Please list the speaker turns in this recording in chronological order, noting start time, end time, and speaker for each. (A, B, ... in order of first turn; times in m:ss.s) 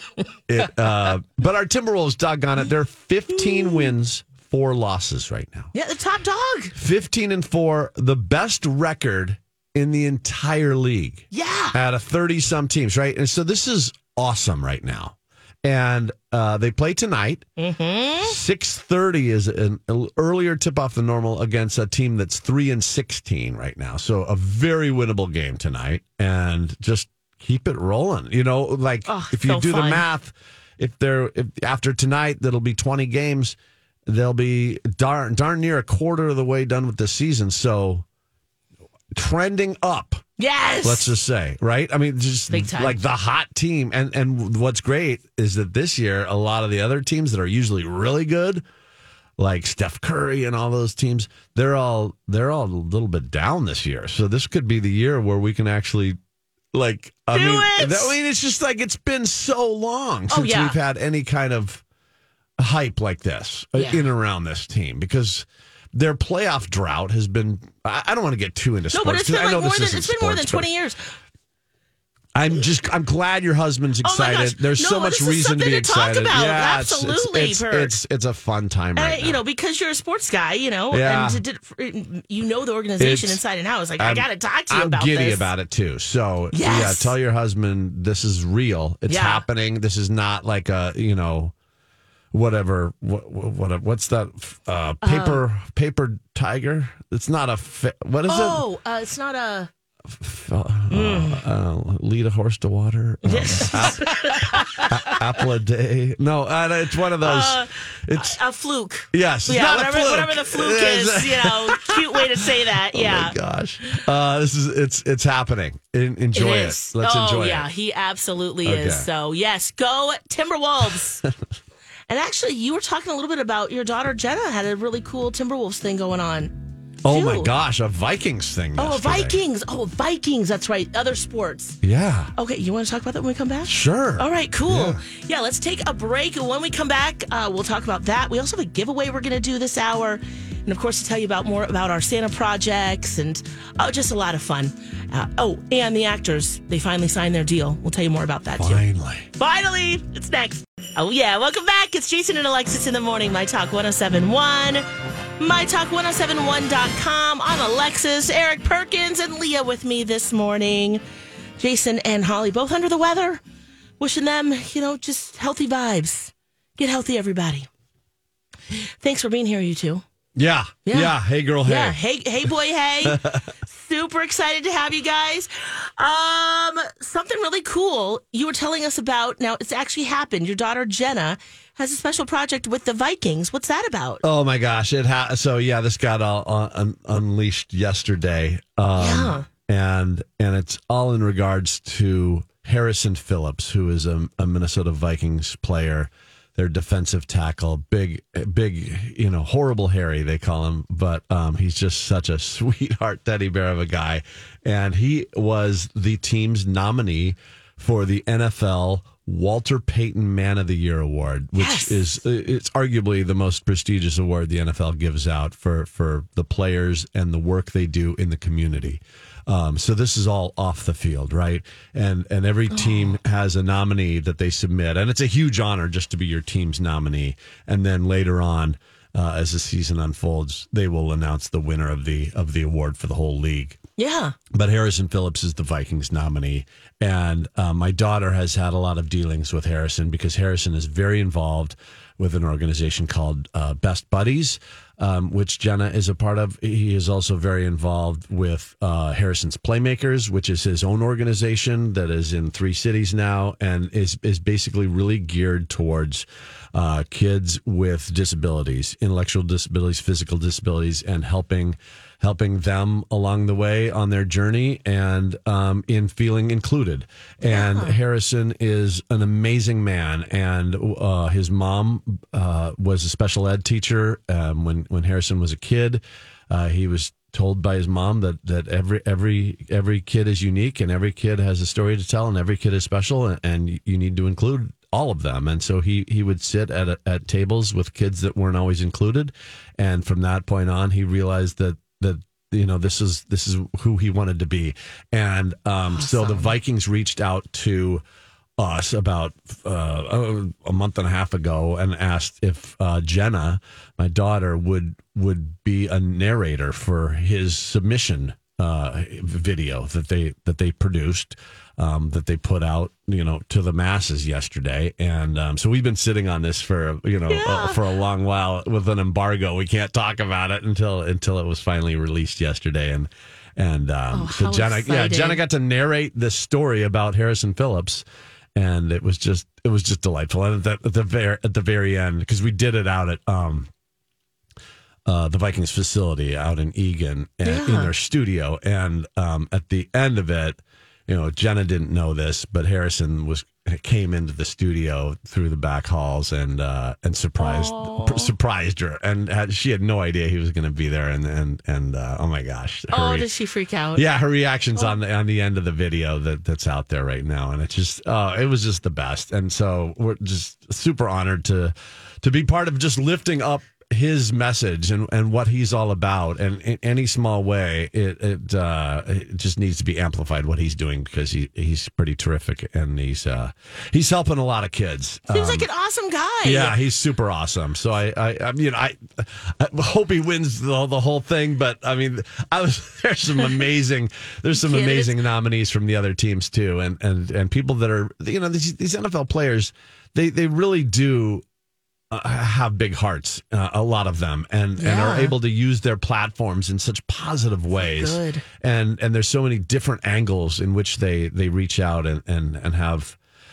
0:00.5-0:05.7 A
0:03.4-0:03.9 B
0:05.7-0:06.7 B
0:06.8-0:17.5 A
0:11.3-0:11.8 B
0:17.6-0:18.4 B
0:18.2-0:33.6 A
0:29.1-0:30.1 B
0:34.1-0:38.0 A
0:39.1-0:40.2 A
0:40.4-0:41.1 B
0:40.8-0:48.6 A
0:42.5-0:43.0 B
0:49.4-0:56.2 A
0:56.7-1:01.8 A
0:57.3-0:58.1 B
1:00.3-1:00.8 B
1:02.6-1:10.7 A
1:03.8-1:04.0 B
1:08.9-1:11.1 B
1:12.4-1:19.4 A
1:14.0-1:18.0 B
1:19.0-1:25.5 B
1:20.9-1:21.4 A
1:23.0-1:23.4 A
1:24.0-1:31.5 A
1:26.5-1:27.1 B
1:29.1-1:29.4 B
1:32.3-1:38.6 A
1:35.0-1:35.4 B
1:38.3-1:39.7 B
1:40.1-1:48.4 A
1:40.9-1:41.4 B
1:43.2-1:45.2 B
1:47.2-1:53.4 B
1:49.1-1:57.7 A
1:56.3-2:01.2 B
1:58.6-1:59.1 A
2:02.1-2:06.5 B
2:07.0-2:09.4 A
2:07.1-2:07.5 B
2:08.8-2:11.8 B
2:11.8-2:12.3 A
2:12.4-2:28.8 B
2:13.6-2:15.0 A
2:28.6-2:29.3 A
2:29.4-2:34.9 B
2:35.4-2:41.0 B
2:41.6-2:43.4 B
2:44.0-2:47.7 B
2:48.7-2:50.0 B
2:50.4-2:52.0 A
2:50.9-3:04.2 B
2:53.0-2:53.5 A
3:04.2-3:53.8 A
3:09.0-3:09.5 B
3:31.6-3:32.1 B
3:42.7-3:43.1 B
3:54.0-3:54.4 B
3:54.5-4:58.0 A
4:27.5-4:28.0 B
4:55.9-4:56.6 B
4:58.6-5:28.0 A
5:17.3-5:17.8 B
5:24.1-5:25.4 B
5:28.6-5:33.7 A
5:35.1-5:53.3 A
5:37.4-5:37.9 B
5:47.4-5:48.3 B
5:52.9-5:54.1 B
5:54.0-6:15.7 A
6:15.3-6:16.8 B
6:16.4-6:31.4 A
6:24.6-6:25.2 B
6:32.1-6:43.2 A
6:34.8-6:35.4 B
6:37.8-6:38.4 B